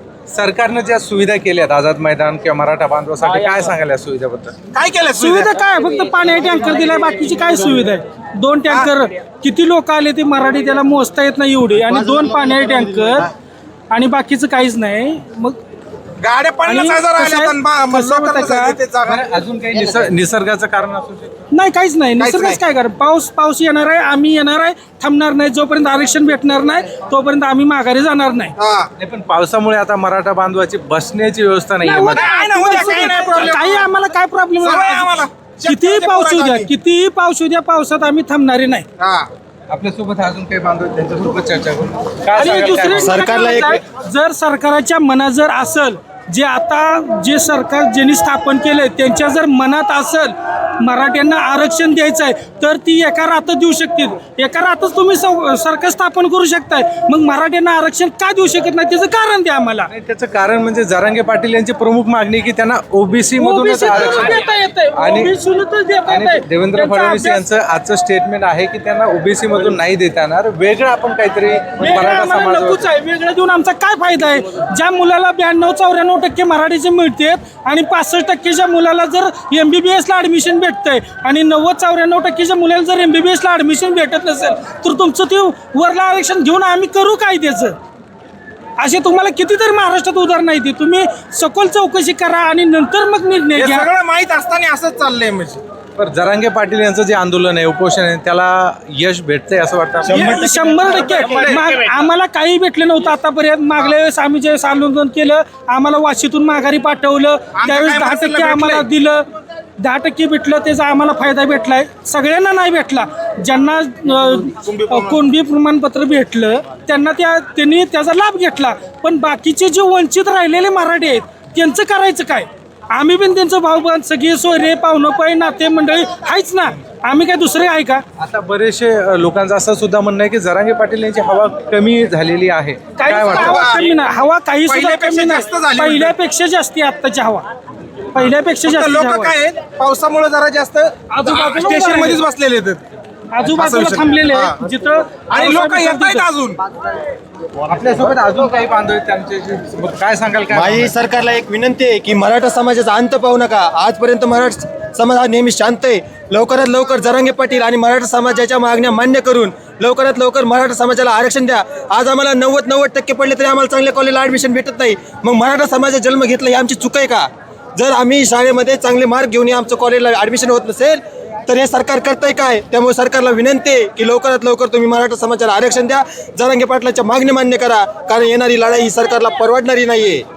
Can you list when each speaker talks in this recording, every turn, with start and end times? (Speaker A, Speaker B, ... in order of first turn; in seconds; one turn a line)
Speaker A: 0.3-4.6
Speaker B: 4.7-5.5
Speaker C: 5.2-13.3
Speaker C: 13.9-15.6
Speaker B: 16.2-19.2
Speaker C: 16.6-18.8
Speaker A: 19.0-21.3
Speaker C: 21.5-28.5
Speaker B: 22.2-22.6
Speaker B: 28.6-28.9
Speaker A: 29.0-32.3
Speaker C: 31.8-38.9
Speaker B: 32.1-33.9
Speaker B: 34.6-36.7
Speaker B: 39.0-39.3
Speaker A: 39.7-43.2
Speaker C: 42.3-59.9
Speaker D: 42.9-43.8
Speaker A: 59.9-64.4
Speaker C: 63.4-67.4
Speaker A: 65.0-65.3
Speaker A: 66.1-72.8
Speaker C: 71.8-87.8
Speaker C: 88.8-93.9
Speaker B: 93.5-95.6
Speaker A: 96.0-100.3
Speaker B: 100.0-101.9
Speaker C: 100.1-109.2
Speaker B: 107.5-108.9
Speaker C: 109.8-128.0
Speaker B: 114.5-115.2
Speaker A: 128.2-133.6
Speaker C: 132.9-137.4
Speaker B: 133.3-133.9
Speaker B: 134.7-136.1
Speaker C: 138.1-139.3
Speaker B: 138.6-142.8
Speaker C: 141.1-142.2
Speaker C: 143.3-146.3
Speaker B: 143.4-144.6
Speaker B: 145.3-146.6
Speaker A: 147.7-150.9
Speaker D: 150.5-180.2